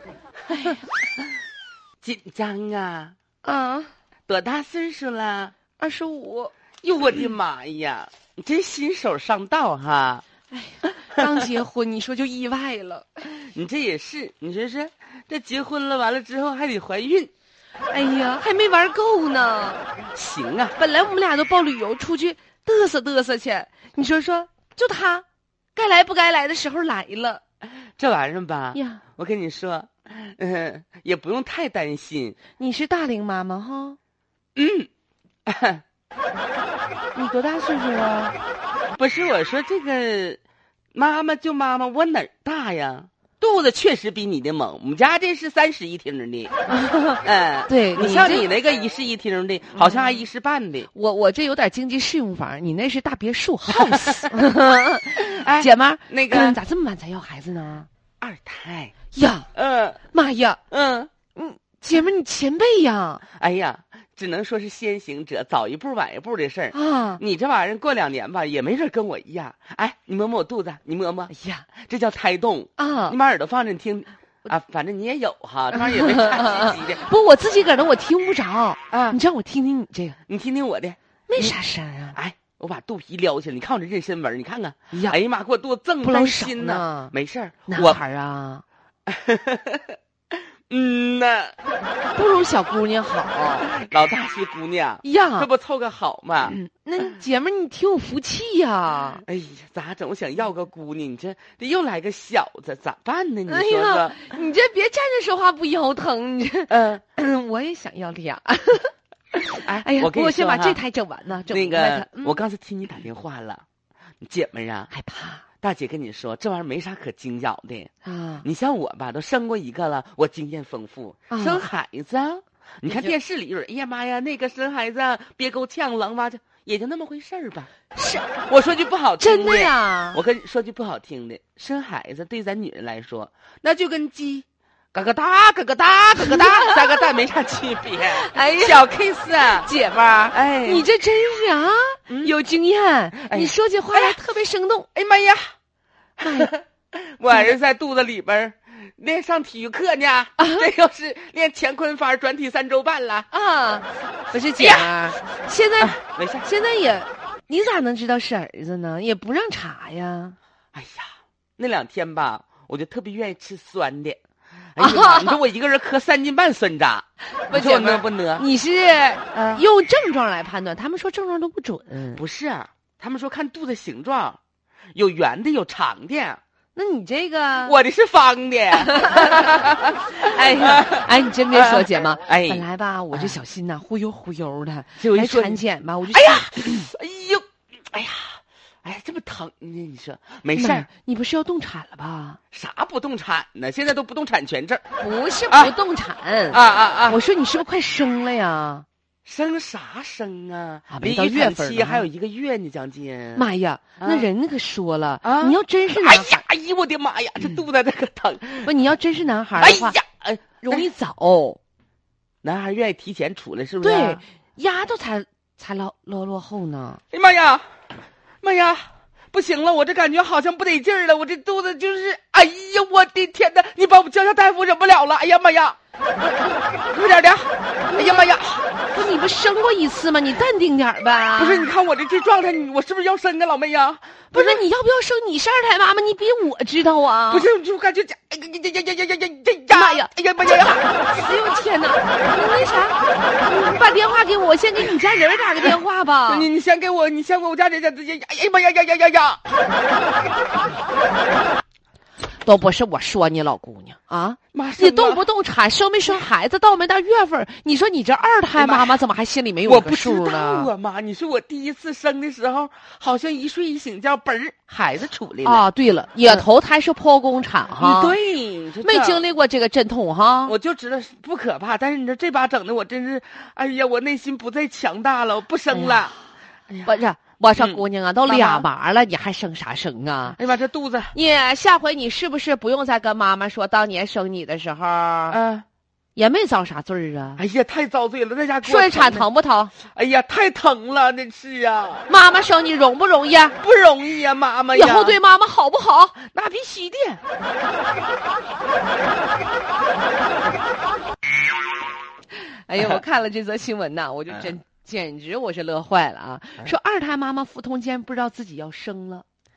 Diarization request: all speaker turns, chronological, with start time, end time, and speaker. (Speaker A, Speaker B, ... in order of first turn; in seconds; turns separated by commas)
Speaker A: 0.5-0.8, Speaker B: 2.0-3.1, Speaker A: 3.4-3.9, Speaker B: 4.3-5.5, Speaker A: 5.8-6.5, Speaker B: 6.8-10.2, Speaker A: 10.5-13.3, Speaker B: 13.3-17.3, Speaker A: 17.9-19.9, Speaker B: 20.1-20.8, Speaker A: 20.8-27.4, Speaker B: 28.0-32.4, Speaker A: 28.7-29.0, Speaker A: 32.6-34.0, Speaker B: 34.6-34.9, Speaker B: 35.5-35.8, Speaker A: 37.1-38.4, Speaker B: 39.0-40.4, Speaker B: 40.9-46.5, Speaker A: 46.7-48.5, Speaker B: 47.2-50.9, Speaker A: 49.7-50.2, Speaker A: 50.9-57.9, Speaker B: 53.8-54.3, Speaker B: 55.2-56.6, Speaker B: 58.2-59.0, Speaker A: 59.1-59.5, Speaker B: 59.5-60.0, Speaker A: 60.1-60.6, Speaker B: 60.7-61.1, Speaker A: 61.4-63.2, Speaker B: 63.3-77.0, Speaker A: 66.7-67.2, Speaker A: 71.3-71.7, Speaker A: 72.8-73.2, Speaker A: 75.7-80.2, Speaker B: 78.9-79.2, Speaker B: 80.3-81.6, Speaker A: 81.3-82.2, Speaker B: 82.2-88.0, Speaker A: 86.0-87.1, Speaker A: 87.7-88.6, Speaker B: 89.1-91.6, Speaker A: 92.2-93.7, Speaker B: 93.7-96.6, Speaker A: 95.0-95.5, Speaker A: 96.5-99.2, Speaker B: 99.2-104.2, Speaker A: 103.5-112.4, Speaker B: 106.7-107.0, Speaker B: 109.6-110.8, Speaker B: 111.5-113.6, Speaker B: 114.2-114.9, Speaker A: 114.9-115.4, Speaker B: 115.6-117.9, Speaker A: 118.0-118.5, Speaker B: 118.4-127.7, Speaker A: 121.3-121.7, Speaker A: 128.0-128.3, Speaker B: 128.5-139.7, Speaker A: 129.2-130.2, Speaker A: 136.2-137.1, Speaker A: 138.1-138.9, Speaker A: 139.4-144.9, Speaker B: 140.3-140.9, Speaker B: 142.1-142.3, Speaker B: 143.2-144.2, Speaker B: 144.9-145.5, Speaker B: 146.2-153.3, Speaker A: 146.2-146.5, Speaker A: 147.3-147.6, Speaker A: 150.4-150.7, Speaker A: 153.3-160.4, Speaker B: 154.6-155.0, Speaker B: 155.8-156.5, Speaker B: 160.7-161.1, Speaker B: 161.6-164.2, Speaker B: 164.8-168.5, Speaker A: 164.8-165.4, Speaker A: 167.3-172.2, Speaker B: 169.3-169.7, Speaker B: 172.2-174.4, Speaker B: 174.9-176.4, Speaker A: 176.8-177.8, Speaker B: 177.6-183.4, Speaker A: 178.8-186.9, Speaker B: 185.0-190.9, Speaker A: 190.6-192.4, Speaker B: 192.5-194.8, Speaker A: 195.0-198.8, Speaker B: 195.5-195.8, Speaker B: 196.5-197.2, Speaker B: 199.2-204.3, Speaker A: 200.9-202.1, Speaker A: 203.4-206.4, Speaker B: 205.2-208.7, Speaker A: 208.6-210.0, Speaker B: 209.6-210.9, Speaker A: 210.6-211.6, Speaker B: 212.4-214.2, Speaker A: 213.8-217.0, Speaker B: 217.1-217.7, Speaker B: 218.4-228.7, Speaker A: 227.9-228.3, Speaker A: 228.9-231.7, Speaker B: 231.4-234.6, Speaker A: 234.3-237.5, Speaker B: 237.3-240.9, Speaker A: 239.7-246.5, Speaker B: 246.3-249.4, Speaker A: 252.4-260.7, Speaker B: 254.5-255.2, Speaker B: 258.6-259.0, Speaker B: 259.7-265.6, Speaker A: 265.4-268.2, Speaker B: 267.8-269.2, Speaker A: 268.8-270.6, Speaker B: 270.5-276.1, Speaker A: 275.7-276.2, Speaker B: 276.7-276.9, Speaker A: 276.9-280.4, Speaker B: 277.6-278.7, Speaker B: 280.4-281.2, Speaker A: 281.1-285.4, Speaker B: 285.3-285.6, Speaker A: 286.2-287.4, Speaker B: 287.4-289.3, Speaker A: 288.6-289.7, Speaker B: 289.9-292.1, Speaker A: 292.1-293.6, Speaker B: 293.6-295.2, Speaker A: 294.7-296.2, Speaker B: 296.2-297.2, Speaker A: 302.4-309.2